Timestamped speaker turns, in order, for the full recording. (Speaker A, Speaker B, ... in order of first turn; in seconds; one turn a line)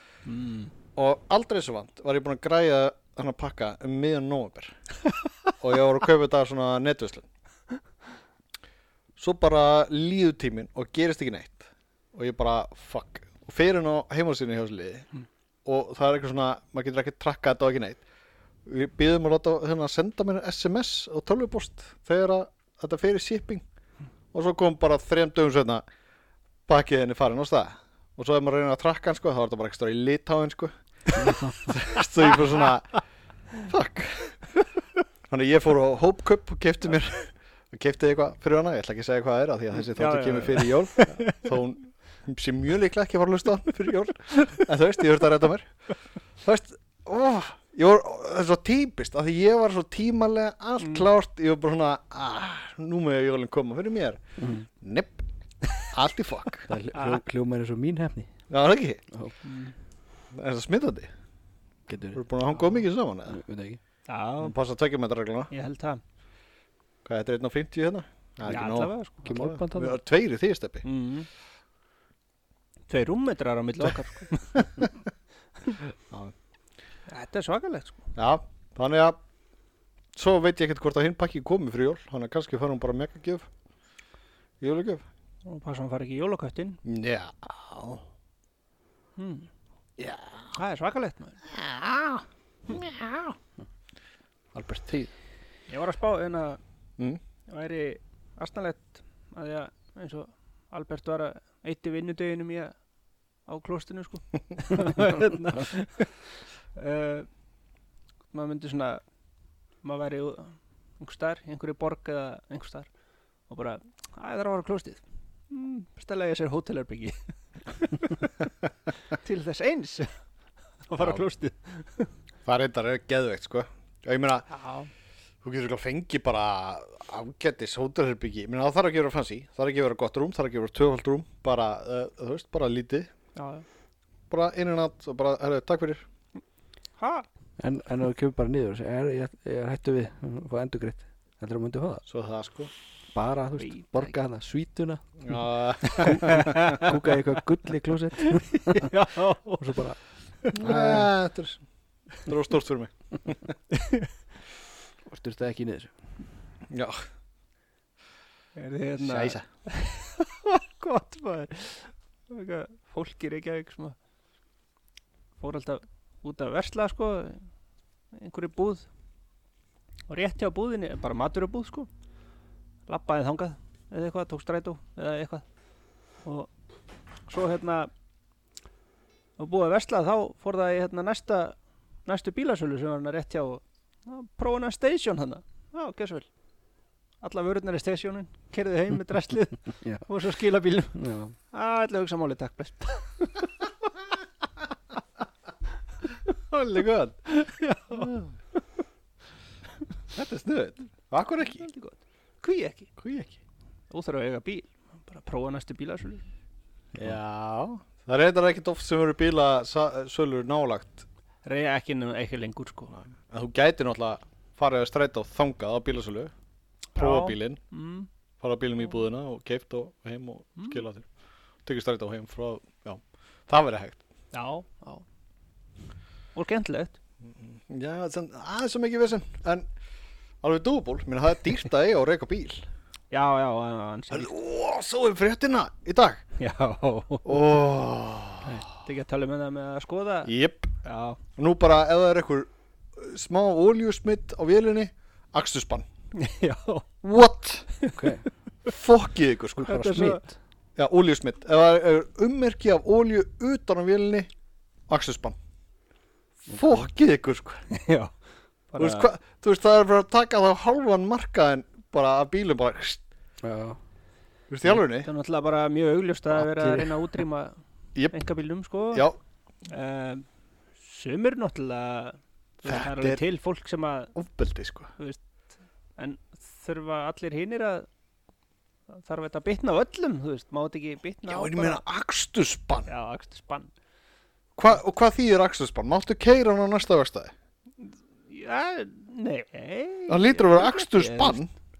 Speaker A: 0.2-0.7
Speaker B: 0.9-4.8
Speaker B: 5.6-7.2
Speaker B: 9.2-15.1
Speaker B: 15.6-18.0
Speaker B: 18.6-23.6
Speaker B: 24.3-25.8
Speaker B: 26.7-33.0
Speaker C: 31.2-31.5
Speaker B: 33.6-34.5
Speaker B: 35.3-45.7
Speaker A: 39.9-41.4
Speaker B: 46.4-54.2
Speaker A: 50.8-51.0
Speaker C: 54.4-54.6
Speaker B: 54.8-55.2
Speaker B: 55.8-56.7
Speaker C: 56.7-58.3
Speaker A: 56.9-57.2
Speaker B: 58.5-59.0
Speaker A: 59.4-59.8
Speaker B: 60.3-61.1
Speaker C: 61.9-62.2
Speaker B: 62.1-63.4
Speaker C: 63.3-63.8
Speaker A: 64.1-64.5
Speaker B: 64.4-65.5
Speaker A: 65.5-66.0
Speaker B: 67.0-70.8
Speaker A: 68.5-69.2
Speaker C: 69.2-70.0
Speaker A: 70.8-71.3
Speaker A: 72.9-74.7
Speaker A: 77.1-78.1
Speaker B: 78.2-79.2
Speaker B: 80.1-83.5
Speaker B: 84.6-85.0
Speaker A: 85.4-86.8
Speaker B: 86.8-88.0
Speaker A: 89.2-89.5
Speaker B: 90.0-90.5
Speaker A: 90.5-91.4
Speaker B: 91.5-93.3
Speaker B: 94.5-95.1
Speaker A: 95.7-96.6
Speaker A: 97.5-102.7
Speaker A: 103.5-106.2
Speaker A: 106.7-107.3
Speaker A: 108.3-109.0
Speaker A: 109.8-112.9
Speaker A: 113.5-118.3
Speaker A: 119.1-120.1
Speaker A: 120.9-122.1
Speaker B: 122.5-124.5
Speaker A: 124.5-124.9
Speaker B: 125.4-133.1
Speaker A: 133.3-133.6
Speaker B: 134.3-136.0
Speaker A: 137.0-137.3
Speaker C: 137.6-142.0
Speaker B: 142.1-142.7
Speaker C: 143.1-145.4
Speaker A: 143.6-144.1
Speaker B: 145.2-146.6
Speaker C: 146.0-148.9
Speaker A: 146.0-146.9
Speaker A: 148.2-149.8
Speaker C: 149.6-150.0
Speaker C: 150.5-151.1
Speaker B: 150.6-151.6
Speaker B: 152.2-153.5
Speaker A: 153.7-154.1
Speaker C: 155.0-155.9
Speaker B: 156.7-157.0
Speaker A: 158.6-163.9
Speaker B: 159.0-159.4
Speaker A: 165.4-167.5
Speaker A: 168.1-168.9
Speaker A: 170.1-171.9
Speaker A: 172.9-175.4
Speaker A: 176.2-176.5
Speaker A: 177.3-177.9
Speaker A: 179.4-186.3
Speaker A: 187.2-191.0
Speaker C: 190.9-191.3
Speaker A: 191.5-193.5
Speaker B: 196.3-197.3
Speaker A: 197.3-198.1
Speaker B: 197.9-198.3
Speaker B: 200.1-201.7
Speaker A: 201.6-202.9
Speaker B: 203.0-203.4
Speaker A: 203.9-206.2
Speaker B: 206.9-211.1
Speaker A: 211.4-212.9
Speaker B: 212.9-216.3
Speaker A: 216.9-218.1
Speaker B: 216.9-217.6
Speaker B: 218.4-221.1
Speaker A: 220.6-220.8
Speaker B: 221.6-224.0
Speaker A: 224.3-225.0
Speaker A: 226.3-227.0
Speaker B: 227.2-229.7
Speaker B: 230.4-232.7
Speaker A: 233.1-234.3
Speaker B: 234.1-236.2
Speaker A: 236.4-237.4
Speaker B: 237.2-238.6
Speaker A: 238.8-240.3
Speaker B: 240.2-240.7
Speaker A: 240.8-241.2
Speaker B: 241.4-245.9
Speaker A: 246.1-246.9
Speaker B: 247.0-247.7
Speaker C: 247.9-248.2
Speaker B: 248.7-249.9
Speaker A: 249.6-250.2
Speaker C: 249.7-250.3
Speaker B: 250.8-254.3
Speaker B: 254.9-255.3
Speaker B: 256.5-257.6
Speaker C: 256.5-256.9
Speaker A: 257.7-258.1
Speaker A: 258.7-259.1
Speaker B: 258.8-263.0
Speaker C: 263.4-263.8
Speaker B: 264.5-265.1
Speaker A: 264.6-267.6
Speaker C: 266.4-267.0
Speaker A: 268.1-269.1
Speaker A: 269.7-270.2
Speaker A: 270.8-274.1
Speaker B: 272.6-273.2
Speaker B: 274.1-274.9
Speaker A: 275.0-275.2
Speaker A: 276.0-277.9
Speaker A: 278.9-281.8
Speaker B: 281.3-282.9
Speaker A: 282.9-283.7
Speaker B: 284.6-287.3
Speaker A: 287.8-291.4
Speaker B: 290.1-291.5